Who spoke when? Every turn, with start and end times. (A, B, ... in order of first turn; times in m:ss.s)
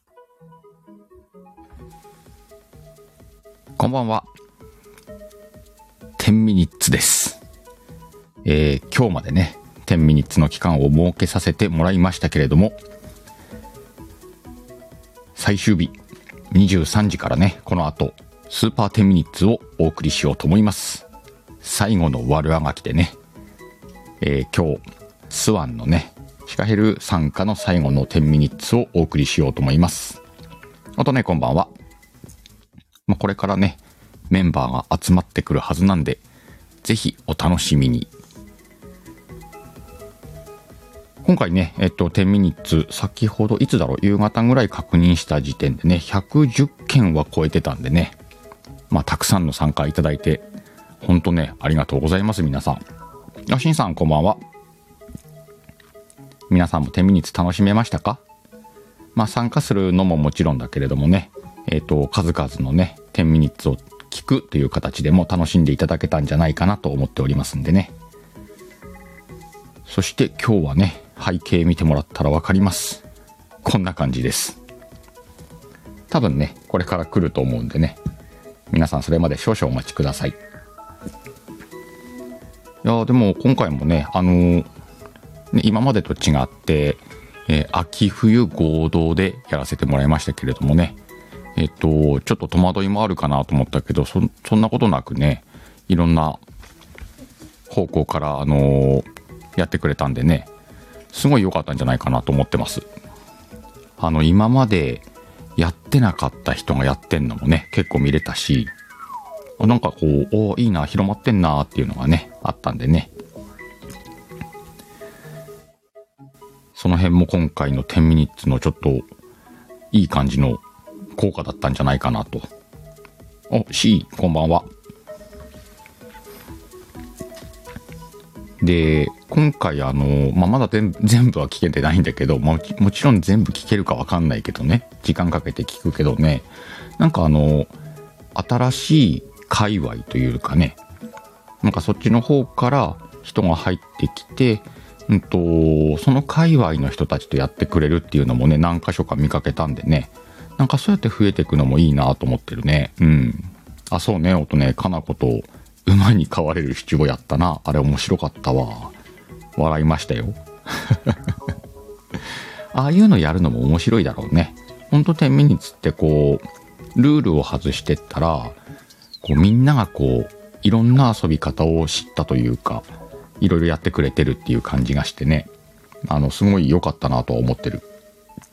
0:03.8-0:04.3 A
0:06.2-0:07.4 A
0:08.4-0:12.8 A
0:15.4-0:16.0 A
0:16.5-0:21.1 A
0:21.6-0:23.2 A
0:24.2-0:30.2 A
0:31.0-0:31.7 A
0:33.1-0:36.2 A
0:36.8-0:38.1 A
0:41.2-0:48.2 A
0:48.9-0:50.4 A
0:51.0-0:52.8 A
0:53.5-0:54.4 A
0:56.5-0:58.2 A
0:59.2-1:07.9 A
1:09.9-1:13.0 A
1:13.6-1:14.6 A
1:16.1-1:18.0 A
1:18.7-1:20.4 A
1:22.8-1:24.7 A
1:25.5-1:31.0 A
1:31.6-1:36.4 A
1:37.7-1:40.5 A
1:41.1-1:42.9 A
1:44.0-1:45.0 A
1:45.6-1:48.7 A
1:49.6-1:53.1 A
1:56.8-1:59.1 A
1:59.9-2:00.6 A
2:01.2-2:02.5 A
2:03.5-2:04.7 A
2:08.6-2:17.7 A
2:18.4-2:20.8 A
2:21.6-2:38.9 A
2:39.6-2:41.2 A
2:42.7-2:46.4 A
2:47.0-2:48.6 A
2:49.2-2:52.9 A
2:53.4-2:55.5 A
2:56.0-2:57.8 A